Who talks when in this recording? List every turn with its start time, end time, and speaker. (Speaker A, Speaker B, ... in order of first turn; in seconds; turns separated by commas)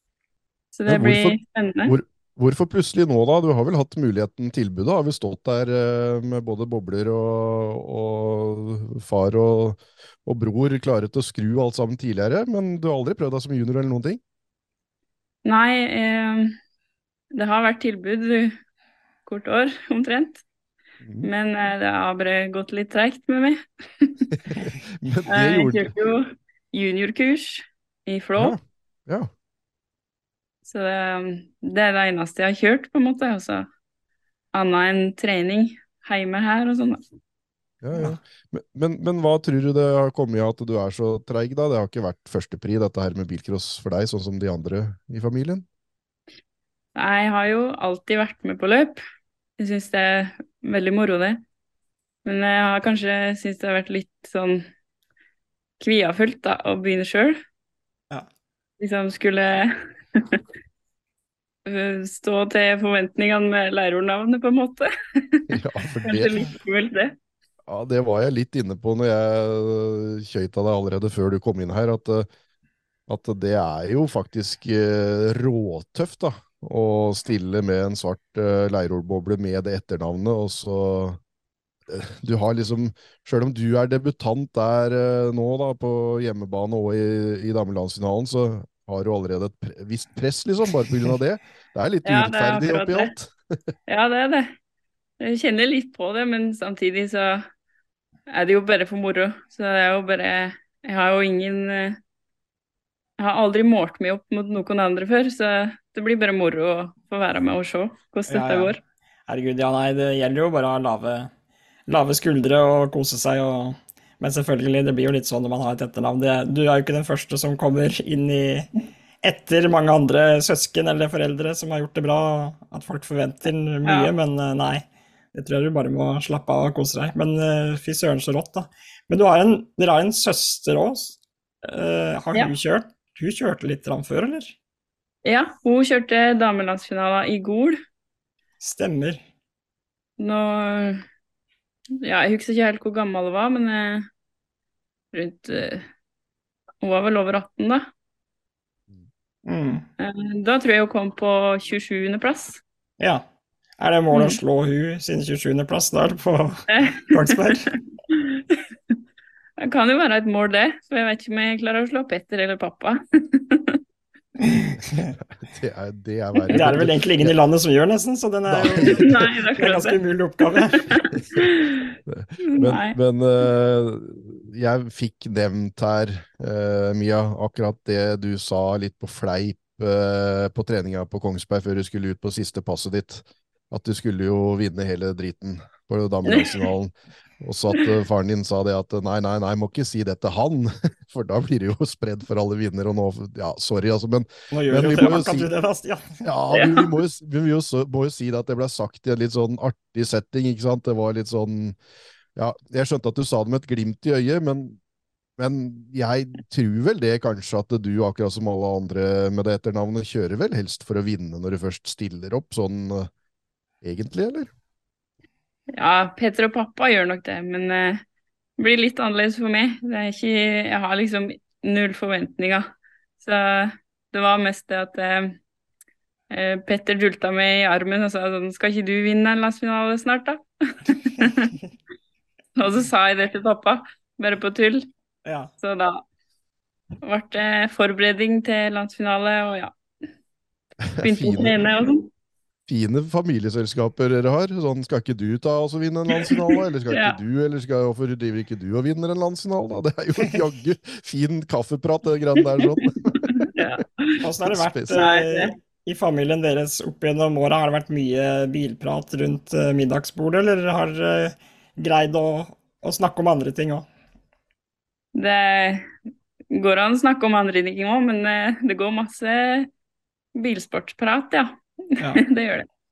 Speaker A: 0.8-1.9, Speaker B: 0.9-14.2, Speaker A: 15.4-16.6, Speaker A: 17.3-18.6, Speaker A: 19.3-20.4, Speaker B: 21.0-21.3, Speaker A: 21.2-24.3, Speaker B: 24.5-25.9, Speaker A: 25.3-28.6, Speaker B: 28.4-29.3, Speaker A: 30.7-33.7, Speaker A: 34.5-37.0, Speaker B: 37.8-45.7, Speaker A: 47.0-49.0, Speaker A: 49.6-51.4, Speaker A: 52.2-54.6, Speaker A: 55.8-57.4, Speaker A: 58.8-60.4, Speaker A: 61.7-67.2, Speaker B: 65.5-66.4, Speaker B: 67.7-72.3, Speaker B: 73.1-81.2, Speaker B: 81.9-93.3, Speaker A: 92.0-93.1, Speaker A: 93.9-94.5, Speaker A: 95.2-97.5, Speaker A: 98.3-102.0, Speaker A: 103.2-108.8, Speaker C: 108.3-111.3, Speaker C: 111.9-118.7, Speaker C: 119.2-134.6, Speaker A: 123.8-124.1, Speaker A: 135.2-137.8, Speaker C: 138.6-139.2, Speaker A: 140.2-141.0, Speaker A: 142.0-144.1, Speaker A: 145.1-145.8, Speaker A: 146.8-147.8, Speaker C: 149.5-149.9, Speaker A: 150.0-152.6, Speaker C: 153.8-157.7, Speaker A: 154.1-154.4, Speaker A: 156.7-157.6, Speaker A: 158.1-158.6, Speaker A: 159.6-163.8, Speaker C: 164.4-165.2, Speaker B: 165.3-167.3, Speaker C: 166.5-170.9, Speaker B: 168.5-169.3, Speaker A: 168.9-170.0, Speaker A: 170.7-173.0, Speaker B: 172.1-195.5, Speaker A: 186.3-186.7, Speaker C: 194.5-196.2, Speaker B: 196.2-201.8, Speaker A: 196.5-196.9, Speaker B: 202.4-204.8, Speaker B: 205.4-213.1, Speaker B: 213.8-214.5, Speaker A: 215.7-218.0, Speaker A: 218.6-222.7, Speaker A: 223.2-225.4, Speaker A: 226.3-231.5, Speaker A: 232.6-234.9, Speaker C: 235.3-235.5, Speaker A: 235.6-236.0, Speaker A: 237.0-239.7, Speaker B: 240.8-241.6, Speaker A: 241.0-242.1, Speaker B: 242.7-253.8, Speaker A: 246.2-247.2, Speaker A: 252.6-254.2, Speaker C: 254.2-263.9, Speaker B: 254.5-255.0, Speaker A: 254.9-255.5, Speaker A: 265.1-265.9, Speaker A: 266.5-269.7, Speaker A: 270.4-272.7, Speaker C: 272.0-272.2